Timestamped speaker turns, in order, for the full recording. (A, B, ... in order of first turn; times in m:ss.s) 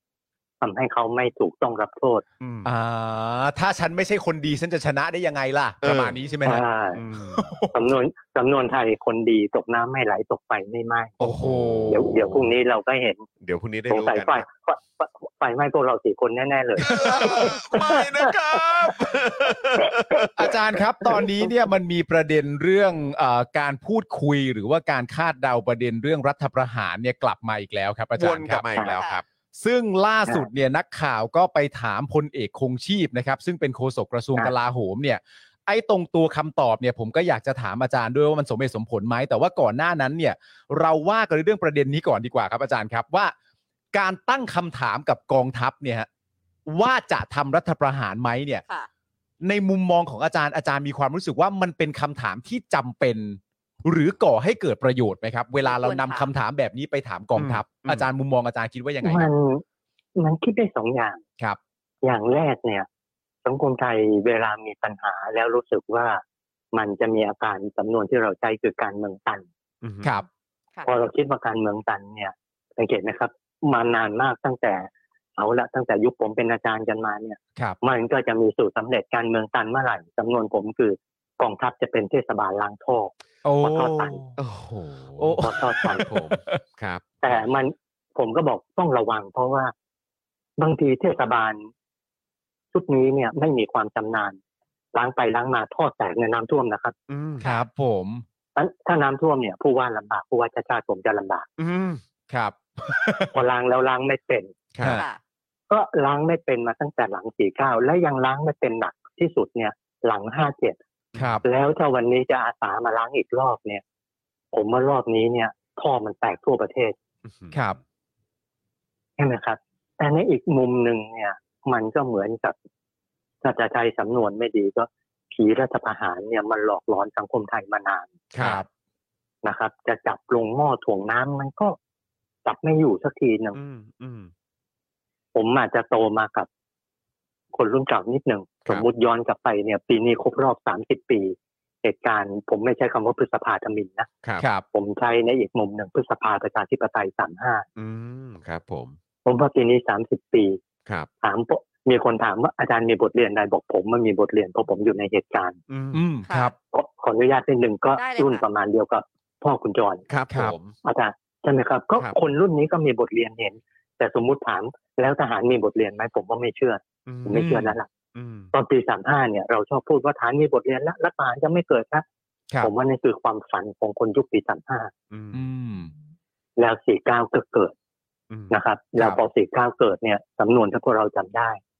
0:00.6-0:02.2 A
0:02.4-0:02.7 B
0:02.6-0:06.6 C
0:05.8-0:06.2 B
0:06.4-0:07.0 A
0:07.0-0:07.4 B
0:07.3-0:07.8 C
0:07.7-0:11.2 A
0:11.2-0:12.3 C
0:11.2-0:12.4 B
0:11.9-0:13.2 A
0:13.4-0:14.4 B
0:13.9-0:17.0 A
0:16.8-0:20.6 B
0:16.9-0:17.5 C
0:17.7-0:18.3 A
0:20.4-0:28.7 C
0:21.1-0:21.5 A
0:28.2-0:29.2 B
0:28.9-0:29.2 D
0:29.6-0:43.3 C
0:43.9-0:46.1 C
0:46.7-0:48.6 C
0:49.4-0:59.3 C
0:55.6-0:56.3 D
0:57.4-0:58.1 B
0:59.0-0:59.6 A
1:00.2-1:01.2 A
1:02.0-1:02.9 A
1:03.4-1:06.2 A
1:06.7-1:09.5 A
1:09.8-1:10.1 B
1:10.8-1:24.2 A
1:23.4-1:24.4 C
1:24.4-1:27.4 B
1:25.2-1:26.6 C
1:25.4-1:26.0 A
1:27.2-1:29.7 A
1:30.6-1:31.7 A
1:32.7-1:34.4 A
1:34.9-1:36.9 A
1:37.1-1:37.4 B
1:37.4-1:38.2 C
1:38.5-1:41.5 A
1:41.6-1:42.0 B
1:42.3-1:43.3 C
1:43.3-1:44.5 A
1:44.7-1:45.0 B
1:44.8-1:45.1 C
1:44.8-1:45.2 D
1:45.7-1:50.8 A
1:51.1-1:51.4 B
1:51.1-1:51.4 C
1:51.4-1:53.8 A
1:54.5-1:57.0 A
1:57.2-1:57.6 B
1:57.5-1:57.8 C
1:59.2-2:02.6 A
2:03.4-2:08.1 A
2:08.3-2:08.6 B
2:08.4-2:08.7 C
2:09.4-2:11.8 A
2:12.4-2:13.6 A
2:13.5-2:14.3 B
2:15.3-2:16.5 A
2:17.5-2:24.1 A
2:24.4-2:24.6 C
2:24.7-2:27.6 A
2:27.8-2:28.9 B
2:29.2-2:30.6 A
2:31.2-2:35.6 A
2:35.7-2:36.0 B
2:35.9-2:36.5 C
2:36.2-2:36.5 D
2:36.7-2:40.0 A
2:37.9-2:38.4 D
2:40.1-2:40.7 B
2:40.8-2:47.9 A
2:47.1-2:48.5 B
2:47.3-2:47.7 C
2:48.5-2:52.0 A
2:52.6-2:54.9 A
2:55.1-2:55.4 B
2:55.3-2:55.9 C
2:56.6-2:57.7 A
2:58.5-3:01.6 A